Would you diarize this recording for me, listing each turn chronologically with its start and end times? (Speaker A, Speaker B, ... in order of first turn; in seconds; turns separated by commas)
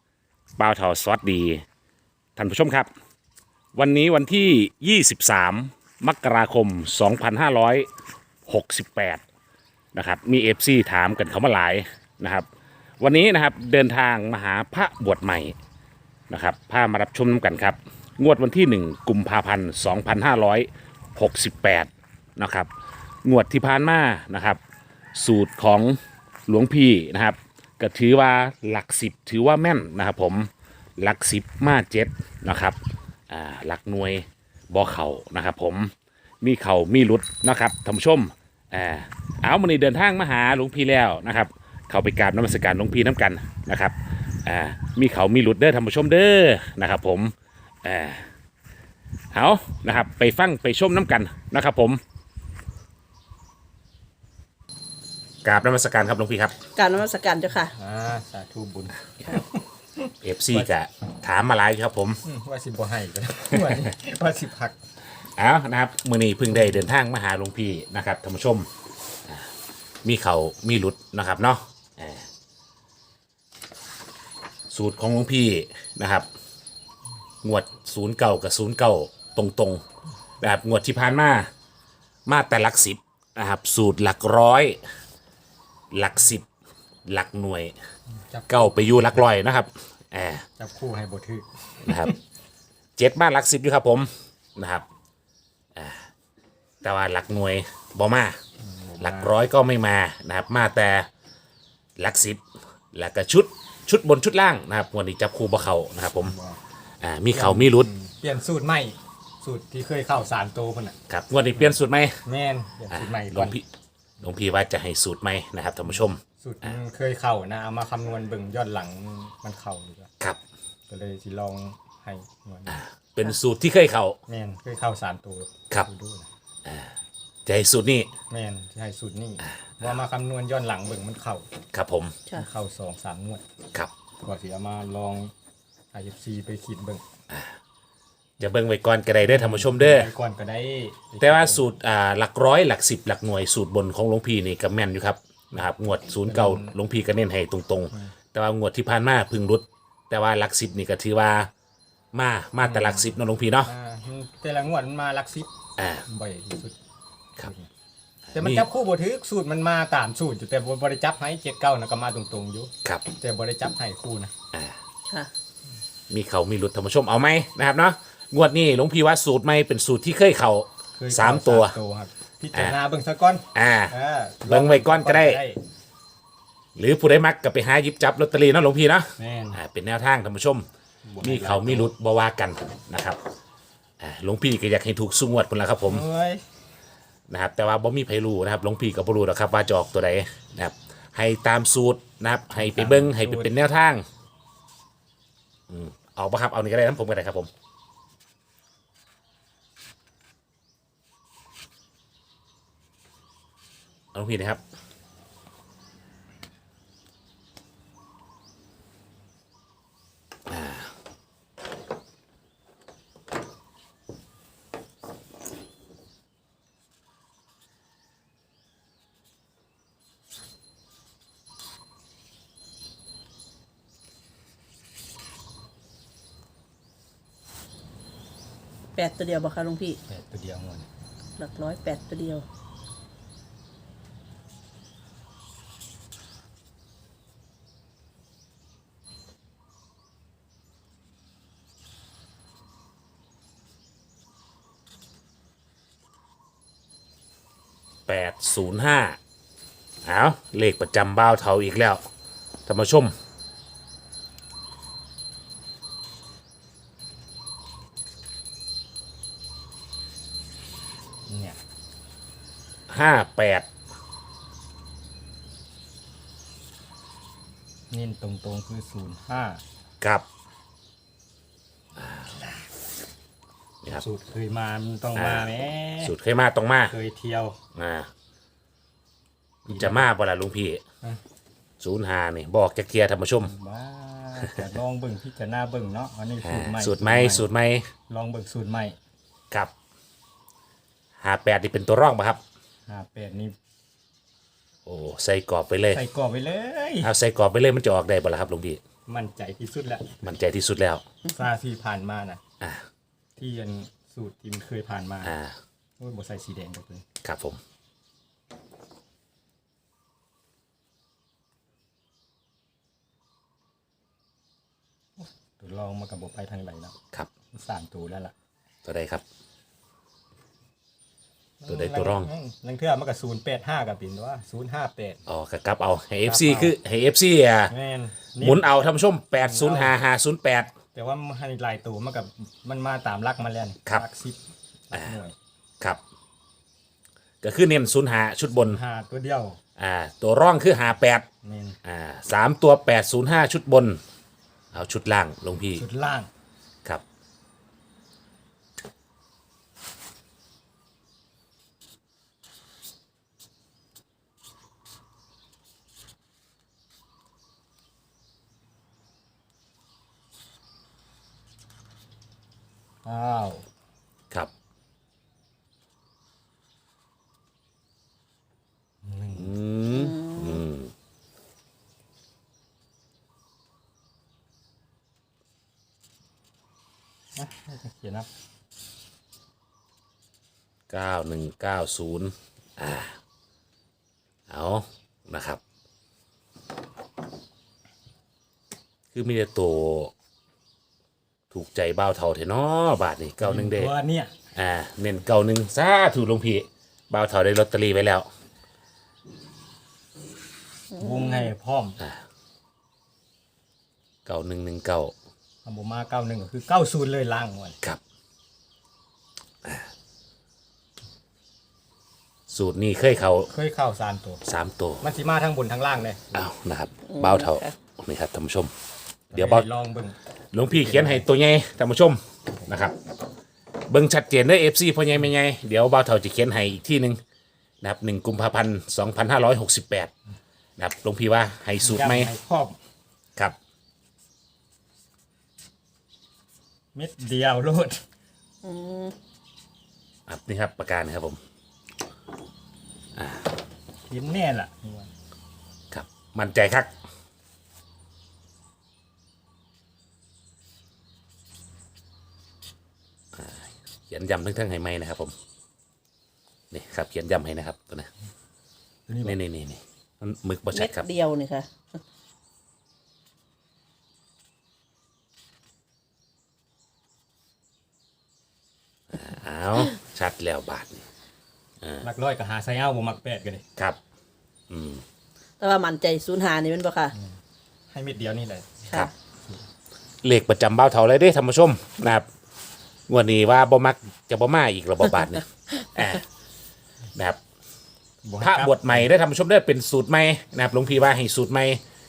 Speaker A: 0.6-1.6, Speaker A: 2.4-2.9, Speaker A: 3.7-7.9, Speaker A: 8.4-9.2, Speaker A: 9.9-12.5, Speaker A: 13.0-15.5, Speaker A: 16.3-22.7, Speaker A: 23.2-24.6, Speaker A: 25.1-32.8, Speaker A: 33.3-48.2, Speaker A: 49.3-52.0, Speaker A: 55.4-56.7, Speaker B: 56.7-57.7, Speaker C: 57.7-59.6, Speaker A: 60.2-62.2, Speaker C: 62.2-64.8, Speaker A: 65.4-68.7, Speaker A: 70.0-72.3, Speaker A: 74.7-76.3, Speaker A: 77.4-79.8, Speaker A: 80.4-81.5, Speaker A: 82.3-84.8, Speaker A: 85.9-86.5, Speaker A: 87.0-87.8, Speaker C: 88.2-89.2, Speaker A: 88.5-90.5, Speaker C: 90.6-92.2, Speaker A: 91.8-92.1, Speaker A: 93.0-94.8, Speaker A: 95.7-96.1, Speaker A: 96.8-98.4, Speaker C: 98.6-99.4, Speaker A: 99.0-101.1, Speaker A: 102.0-106.3, Speaker C: 106.2-106.6, Speaker A: 107.0-107.9, Speaker C: 107.3-111.0, Speaker A: 111.1-112.2, Speaker C: 112.2-113.6, Speaker A: 112.9-113.6, Speaker A: 114.2-116.7, Speaker C: 116.4-120.1, Speaker C: 120.9-122.8, Speaker A: 122.7-124.2, Speaker C: 124.3-126.3, Speaker A: 126.6-126.9, Speaker A: 127.5-128.1, Speaker C: 128.3-131.5, Speaker A: 129.6-129.9, Speaker A: 131.7-132.2, Speaker C: 132.3-133.4, Speaker C: 134.2-135.3, Speaker C: 135.9-137.0, Speaker A: 138.4-140.1, Speaker C: 139.2-141.7, Speaker A: 141.2-151.5, Speaker C: 146.2-146.7, Speaker A: 152.1-153.7, Speaker C: 152.7-153.1, Speaker C: 153.7-155.5, Speaker A: 155.8-156.0, Speaker C: 156.1-156.8, Speaker C: 157.4-157.7, Speaker A: 158.3-158.7, Speaker C: 158.3-164.3, Speaker A: 166.1-171.8, Speaker C: 170.9-175.6, Speaker A: 173.5-175.4, Speaker A: 176.8-180.7, Speaker C: 179.2-179.6, Speaker C: 181.1-181.9, Speaker A: 181.2-183.2, Speaker A: 184.0-186.1, Speaker C: 185.8-186.4, Speaker A: 187.3-194.0, Speaker C: 192.6-193.5, Speaker A: 195.7-197.5, Speaker A: 204.1-204.6, Speaker A: 210.5-210.9, Speaker B: 228.9-230.0, Speaker C: 230.1-230.9, Speaker B: 231.4-232.4, Speaker A: 248.1-249.2, Speaker A: 250.0-252.0, Speaker A: 252.7-253.1, Speaker C: 261.3-261.6, Speaker A: 262.9-263.7, Speaker C: 267.9-269.6, Speaker A: 270.0-270.2, Speaker A: 272.0-272.3, Speaker C: 273.9-276.1, Speaker A: 275.1-276.9, Speaker C: 276.9-277.6, Speaker A: 277.7-278.1, Speaker A: 279.6-280.8, Speaker C: 279.7-280.1, Speaker A: 281.8-283.5, Speaker C: 283.4-287.5, Speaker A: 286.4-287.9, Speaker C: 288.1-289.0, Speaker A: 291.2-292.4, Speaker C: 292.9-293.5, Speaker A: 294.9-296.0, Speaker C: 295.9-297.1, Speaker A: 297.0-298.8, Speaker C: 299.1-300.3, Speaker A: 300.2-301.0, Speaker C: 301.2-302.4, Speaker C: 303.4-305.3, Speaker A: 305.2-305.5, Speaker C: 306.0-307.0, Speaker A: 307.2-307.6, Speaker C: 315.2-316.9, Speaker C: 317.5-318.3, Speaker A: 318.8-319.2, Speaker C: 321.6-325.2, Speaker A: 321.7-322.3, Speaker A: 325.3-327.7, Speaker C: 326.2-326.7, Speaker C: 327.7-328.7, Speaker A: 328.4-330.7, Speaker C: 329.4-329.9, Speaker C: 330.9-335.3, Speaker A: 337.4-338.8, Speaker C: 338.6-339.6, Speaker A: 339.8-341.2, Speaker C: 341.4-341.8, Speaker A: 341.8-344.0, Speaker A: 344.7-345.8, Speaker C: 345.8-346.3, Speaker C: 363.0-363.6, Speaker C: 369.0-369.5, Speaker A: 369.3-370.9, Speaker B: 369.9-370.6, Speaker C: 377.4-378.3, Speaker A: 380.9-383.2, Speaker A: 384.5-385.6, Speaker A: 389.1-390.1, Speaker A: 391.5-393.9, Speaker C: 393.4-394.3, Speaker A: 394.5-398.3, Speaker B: 400.9-401.5, Speaker C: 400.9-402.0, Speaker A: 404.2-405.1, Speaker C: 405.6-407.8, Speaker A: 412.5-413.5, Speaker C: 413.5-414.4, Speaker A: 414.4-415.0, Speaker C: 415.0-416.4, Speaker A: 416.3-418.7, Speaker B: 417.1-417.7, Speaker A: 419.3-419.7, Speaker C: 419.3-421.2, Speaker A: 420.5-422.9, Speaker A: 423.9-427.2, Speaker A: 427.8-430.1, Speaker A: 430.8-432.3, Speaker C: 431.8-432.8, Speaker C: 436.9-438.0, Speaker B: 438.6-439.1, Speaker A: 440.3-441.4, Speaker A: 443.1-443.5, Speaker C: 444.1-445.1, Speaker A: 445.9-446.9, Speaker A: 453.3-455.3, Speaker A: 456.7-458.1, Speaker C: 459.1-459.4, Speaker A: 459.2-461.1, Speaker B: 460.7-461.7, Speaker A: 469.1-471.0, Speaker C: 472.0-473.6, Speaker A: 474.7-475.0, Speaker B: 475.6-477.1, Speaker C: 477.9-478.9, Speaker A: 480.2-482.3, Speaker A: 483.1-486.2, Speaker C: 488.2-489.1, Speaker A: 488.4-491.8